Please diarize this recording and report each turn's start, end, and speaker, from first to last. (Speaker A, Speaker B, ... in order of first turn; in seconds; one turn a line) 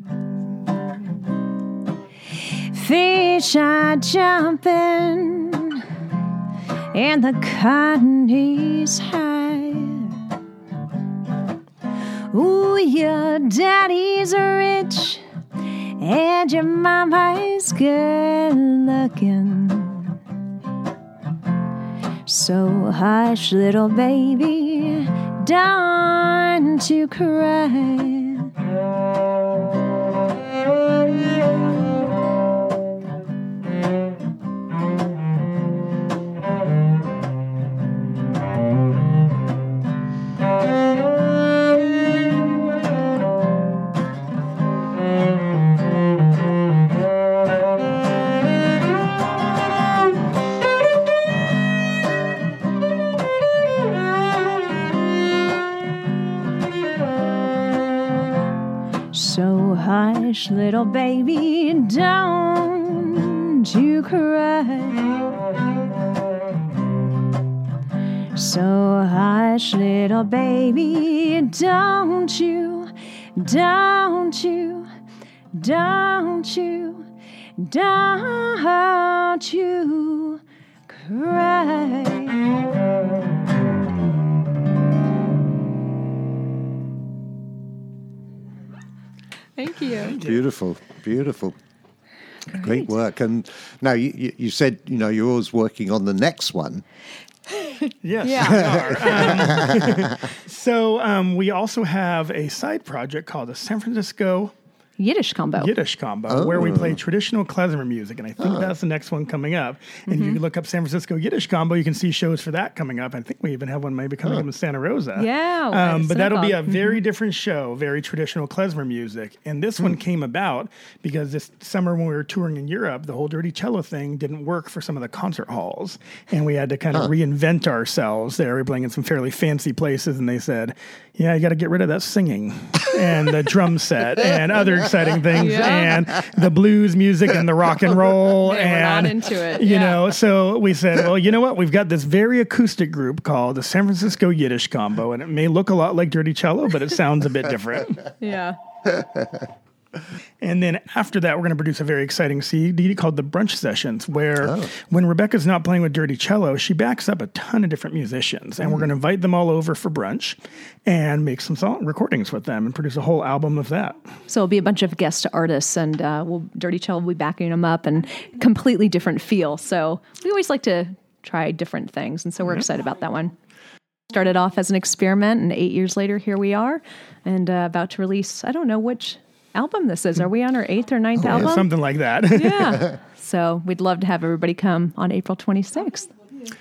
Speaker A: 2.4-5.9
Speaker A: 6.9-10.2
Speaker A: 12.3-15.2
Speaker A: 15.8-20.2
Speaker A: 22.2-28.5
Speaker A: 59.1-65.2
Speaker A: 68.3-74.9
Speaker A: 75.5-82.4
Speaker A: 89.6-90.2
Speaker B: 90.0-90.4
Speaker C: 90.1-91.5
Speaker C: 92.5-96.8
Speaker A: 92.6-92.8
Speaker A: 97.5-99.4
Speaker B: 98.0-104.5
Speaker C: 98.4-100.3
Speaker A: 105.0-105.7
Speaker B: 105.6-148.1
Speaker C: 106.3-107.0
Speaker C: 108.4-108.7
Speaker A: 110.1-110.4
Speaker A: 115.2-117.0
Speaker A: 135.3-136.0
Speaker A: 138.4-140.1
Speaker A: 148.2-148.6
Speaker B: 150.4-164.0
Speaker C: 154.4-154.7
Speaker A: 164.3-173.3
Speaker A: 174.1-181.7
Speaker C: 181.2-181.6
Speaker B: 181.3-182.8
Speaker A: 182.3-186.1